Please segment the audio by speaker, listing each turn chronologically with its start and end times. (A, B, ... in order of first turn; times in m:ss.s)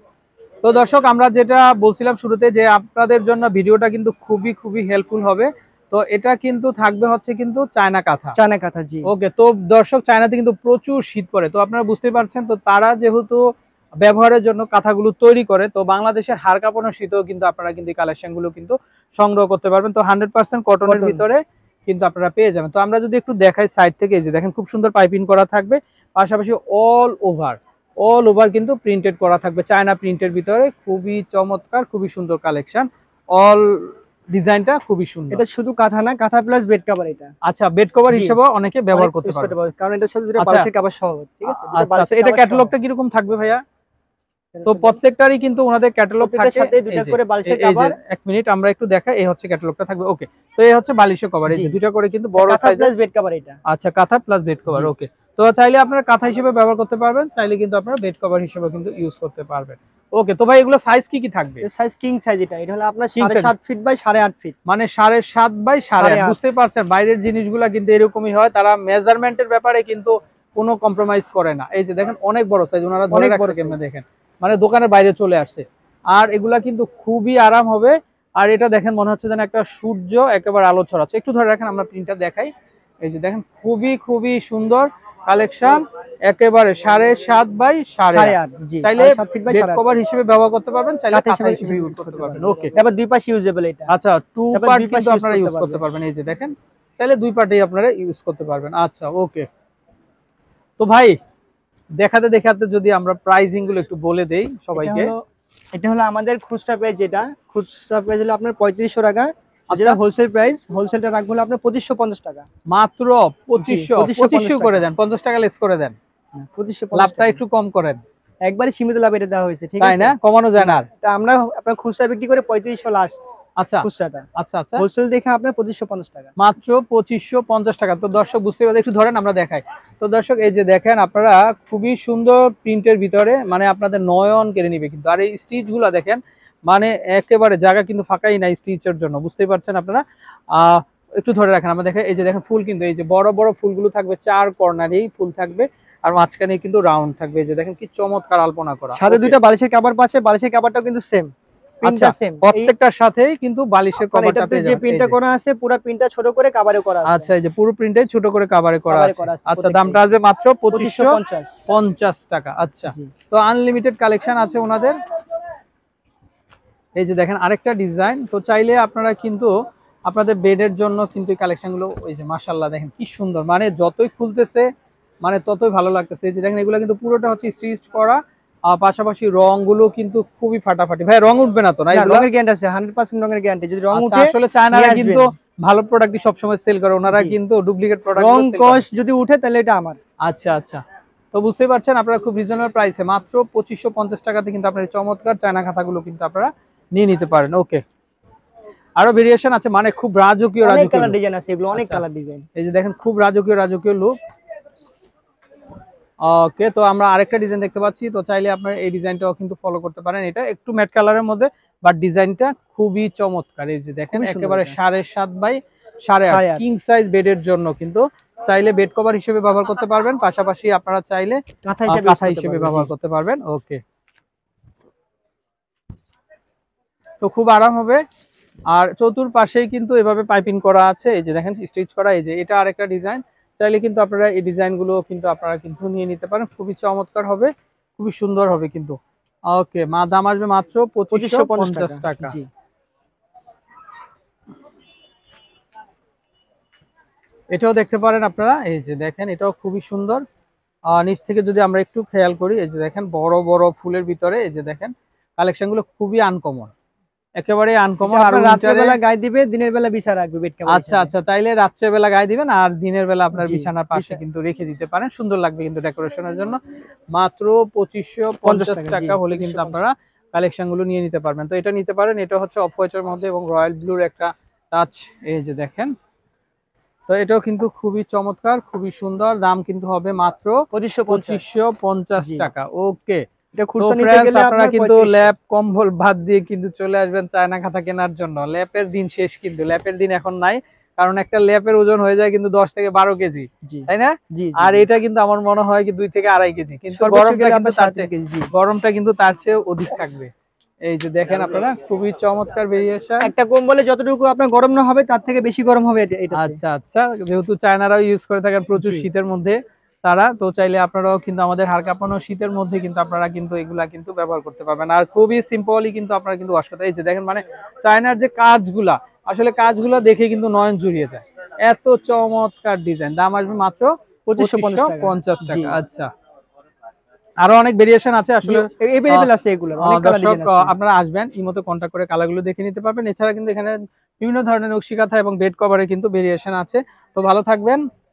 0:00.6-0:08.4 A
0:08.4-0:09.1 B
0:09.1-0:13.4 A
0:14.0-0:35.4 A
0:20.8-0:21.3 B
0:35.3-0:37.3 B
0:37.5-0:39.5 A
0:38.1-0:38.4 B
0:38.9-0:42.7 B
0:40.4-0:40.7 A
0:41.5-0:43.6 A
0:44.5-0:45.0 B
0:44.7-0:52.9 A
0:46.2-0:48.0 B
0:51.5-0:51.8 B
0:52.4-0:53.6 B
0:53.7-1:01.6 A
1:01.6-1:04.6 B
1:03.2-1:03.5 A
1:04.7-1:22.5 A
1:05.9-1:06.4 B
1:13.1-1:13.9 B
1:23.0-1:32.7 A
1:28.1-1:29.8 B
1:31.1-1:33.9 B
1:33.9-1:39.5 A
1:34.5-1:35.8 B
1:40.8-1:41.2 A
1:42.0-1:45.1 A
1:44.8-1:45.2 B
1:45.7-1:52.4 B
1:49.7-1:50.0 A
1:52.7-1:56.0 A
1:53.6-1:54.8 B
1:56.3-1:57.4 B
1:56.9-1:58.0 A
1:58.4-2:03.2 B
1:59.8-2:00.9 A
2:03.6-2:04.8 A
2:03.8-2:06.4 B
2:06.4-2:29.4 A
2:28.9-2:32.7 B
2:31.8-2:35.2 A
2:34.1-2:37.3 B
2:37.1-2:45.0 A
2:38.9-2:40.0 B
2:40.7-2:41.7 B
2:42.9-2:43.1 B
2:47.0-2:49.5 A
2:50.1-2:54.7 A
2:55.2-3:02.2 A
3:01.9-3:05.3 B
3:03.9-3:08.8 A
3:07.1-3:07.4 B
3:08.2-3:10.0 B
3:10.2-3:17.8 A
3:19.0-3:21.2 A
3:20.6-3:22.5 B
3:21.7-3:22.0 A
3:22.6-3:24.2 A
3:26.2-3:43.8 A
3:34.1-3:34.8 B
3:36.3-3:36.6 B
3:41.6-3:42.9 B
3:47.2-3:48.0 A
3:48.7-3:59.0 A
3:59.5-4:02.4 A
4:01.1-4:02.5 B
4:07.5-4:10.2 A
4:10.9-4:16.7 A
4:17.4-4:19.0 A
4:18.0-4:21.1 B
4:20.7-4:26.6 A
4:23.4-4:24.2 B
4:27.1-4:35.9 A
4:28.4-4:29.8 B
4:37.1-4:43.3 A
4:40.7-4:41.4 B
4:42.2-4:42.5 B
4:43.5-4:45.3 B
4:43.8-5:00.3 A
4:53.6-4:54.9 B
4:56.9-4:58.5 B
5:00.8-5:03.3 A
5:03.2-5:06.6 B
5:06.3-5:26.1 A
5:08.8-5:09.1 B
5:24.3-5:25.8 B
5:27.4-5:37.8 A
5:28.4-5:30.7 B